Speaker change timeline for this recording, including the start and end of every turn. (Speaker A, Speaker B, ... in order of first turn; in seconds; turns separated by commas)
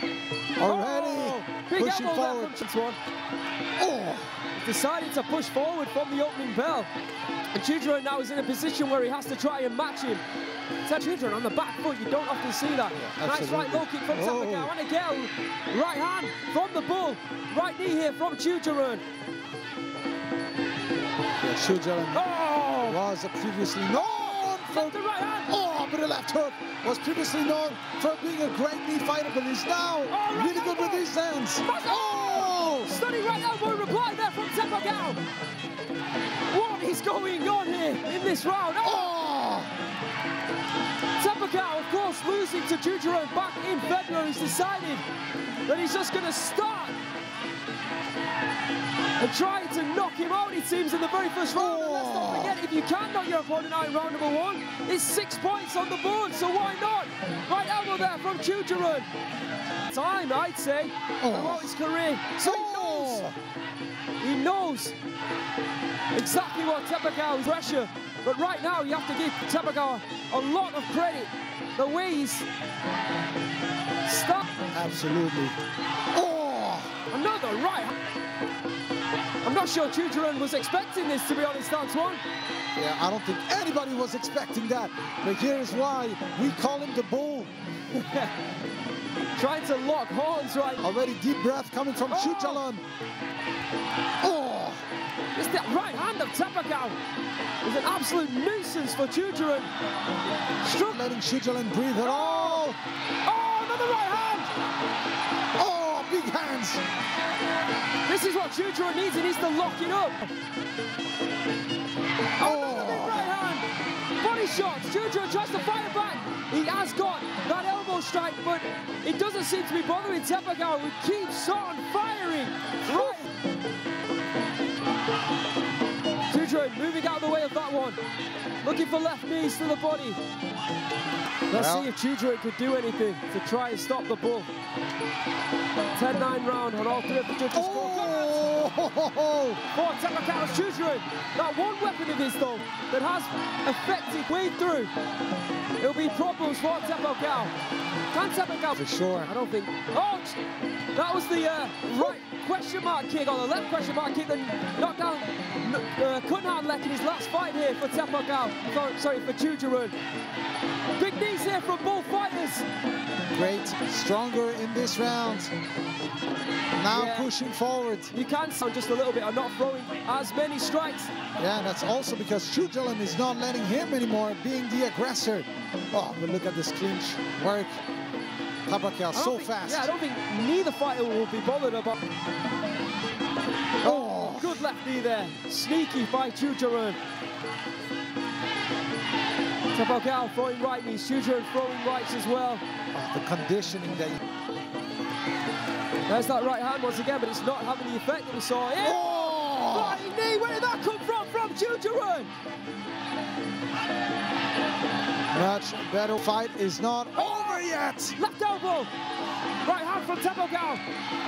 Speaker A: 0.6-2.6, Speaker B: 0.6-3.0, Speaker A: 3.8-4.3, Speaker B: 4.5-6.9, Speaker B: 7.5-10.2, Speaker B: 10.8-19.0, Speaker A: 12.9-14.7, Speaker A: 21.4-22.2, Speaker B: 22.1-23.0, Speaker A: 22.8-33.0, Speaker B: 23.9-25.5, Speaker B: 30.1-35.2, Speaker B: 36.5-39.1, Speaker A: 38.8-39.7, Speaker B: 41.2-45.0, Speaker B: 45.6-46.9, Speaker B: 49.2-59.1, Speaker A: 51.5-52.6, Speaker B: 59.9-63.2, Speaker A: 61.2-61.7, Speaker A: 62.4-63.3, Speaker B: 64.2-64.9, Speaker B: 66.1-72.5, Speaker B: 74.0-74.5, Speaker A: 74.7-75.5, Speaker A: 76.1-76.9, Speaker B: 77.1-77.9, Speaker B: 79.4-82.2, Speaker A: 82.8-87.5, Speaker B: 87.9-88.3, Speaker B: 89.3-90.8, Speaker A: 90.8-92.8, Speaker B: 92.1-92.6, Speaker A: 94.2-94.8, Speaker B: 95.3-97.0, Speaker B: 97.6-99.7, Speaker B: 100.6-101.0, Speaker A: 100.8-102.8, Speaker B: 102.0-104.5, Speaker A: 105.6-106.8, Speaker B: 108.0-110.3, Speaker B: 112.4-113.7, Speaker A: 112.4-113.3, Speaker B: 114.2-123.3, Speaker A: 122.9-123.2, Speaker B: 126.3-128.0, Speaker B: 128.6-130.2, Speaker B: 131.5-134.5, Speaker A: 131.5-131.9, Speaker B: 135.9-138.4, Speaker A: 137.5-139.6, Speaker B: 139.7-144.9, Speaker B: 145.8-147.5, Speaker B: 148.1-150.4, Speaker A: 148.8-149.3, Speaker B: 150.9-159.9, Speaker B: 160.9-162.7, Speaker A: 163.3-165.5, Speaker A: 166.8-168.1, Speaker B: 166.9-167.3, Speaker B: 168.1-171.1, Speaker A: 171.4-177.8, Speaker A: 178.7-179.9, Speaker B: 179.1-182.0, Speaker B: 183.8-187.0, Speaker A: 183.8-184.6, Speaker B: 189.7-192.6, Speaker A: 192.9-194.2, Speaker B: 196.1-202.3, Speaker A: 198.8-200.0, Speaker A: 205.3-208.2, Speaker B: 208.2-208.9, Speaker B: 209.6-210.8